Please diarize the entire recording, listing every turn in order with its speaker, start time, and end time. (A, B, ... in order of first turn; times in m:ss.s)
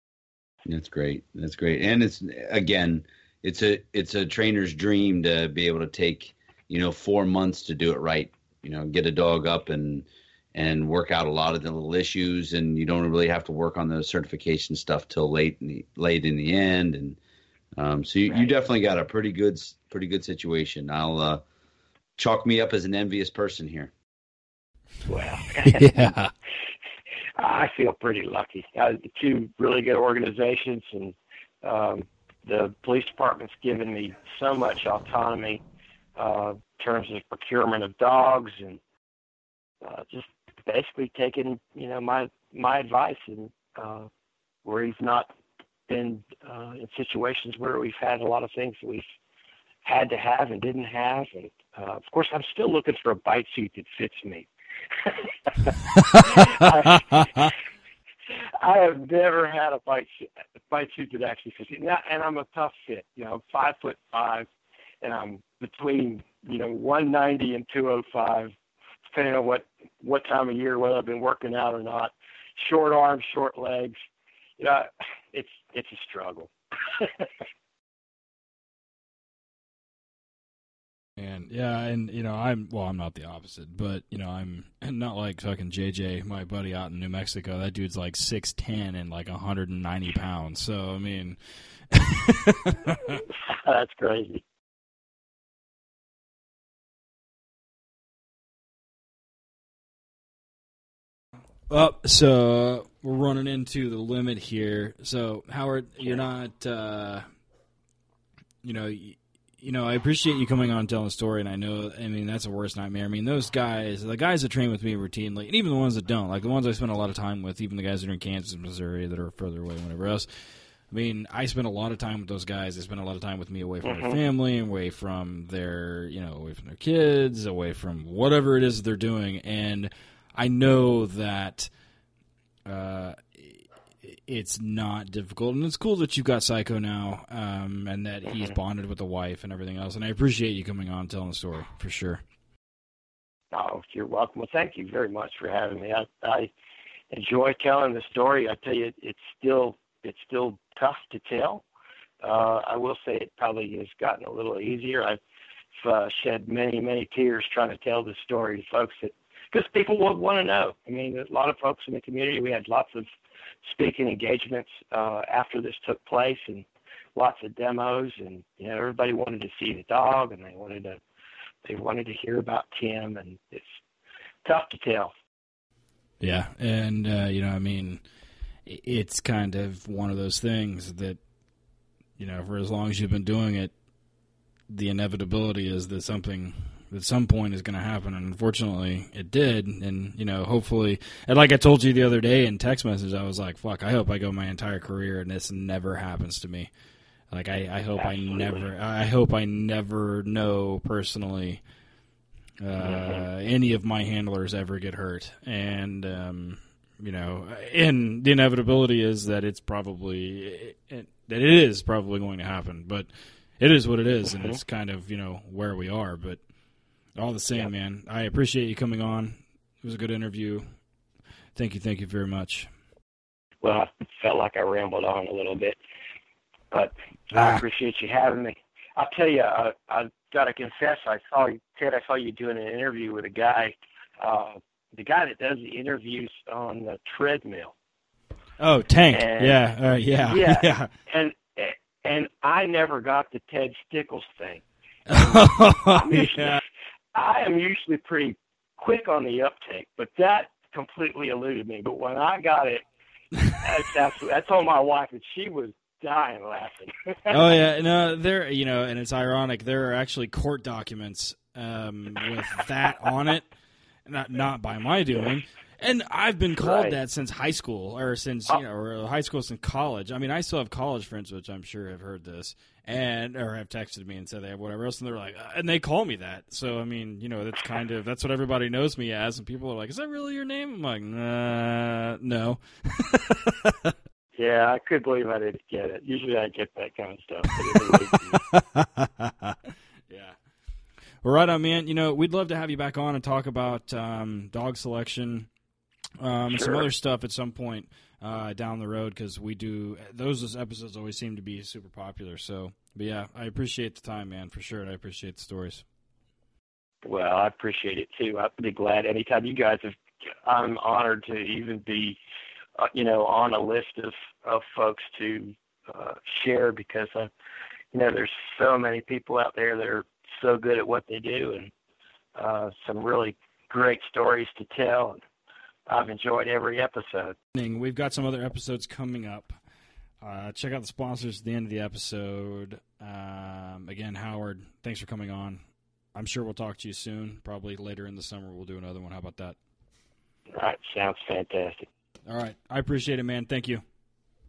0:00.7-0:17.2 A
0:17.8-0:21.4 A
0:22.2-0:23.9 A
0:25.1-0:25.9 B
0:25.6-0:26.3 C
0:27.4-0:35.6 B
0:36.2-0:38.8 B
0:39.8-0:44.1 B
0:44.6-0:45.3 B
0:45.9-0:49.1 B
0:49.8-0:57.6 B
0:58.3-1:04.5 B
1:05.0-1:08.5 B
1:09.1-1:14.0 B
1:14.6-1:17.3 B
1:21.2-1:31.4 C
1:31.9-1:33.2 C
1:33.4-1:34.4 B
1:41.7-1:47.2 C
1:48.6-2:00.3 C
2:00.9-2:11.7 C
2:03.8-2:04.2 B
2:12.7-2:22.2 C
2:23.5-2:26.5 B
2:27.1-2:31.6 B
2:32.2-2:35.2 B
2:35.8-2:43.1 B
2:43.6-2:51.0 B
2:51.6-2:53.8 B
2:54.4-2:55.1 B
2:56.2-2:58.0 C
2:58.7-3:01.2 C
3:02.2-3:03.7 C
3:04.7-3:16.7 C
3:17.3-3:21.6 C
3:18.0-3:18.7 B
3:22.6-3:36.4 C
3:22.8-3:23.2 B
3:37.2-3:40.7 C
3:41.6-3:42.7 C
3:43.6-3:45.8 B
3:46.7-3:57.7 B
3:47.3-3:47.6 C
3:58.6-4:00.9 C
3:59.1-3:59.6 B
4:00.2-4:06.6 B
4:05.1-4:06.6 C
4:07.1-4:12.8 B
4:13.5-4:17.6 B
4:17.3-4:23.5 C
4:24.1-4:43.9 C
4:26.6-4:27.0 B
4:44.4-4:48.4 B
4:47.7-4:49.6 C
4:50.1-4:50.4 C
4:51.2-4:55.5 C
4:56.2-5:05.8 C
4:56.5-4:56.9 B
5:07.0-5:12.2 B
5:12.8-5:17.3 B
5:17.9-5:21.7 B
5:22.4-5:25.2 B
5:25.9-5:27.4 B
5:27.6-5:29.6 C
5:30.2-5:35.6 C
5:36.2-5:39.6 C
5:40.5-5:41.9 B
5:42.3-5:43.8 C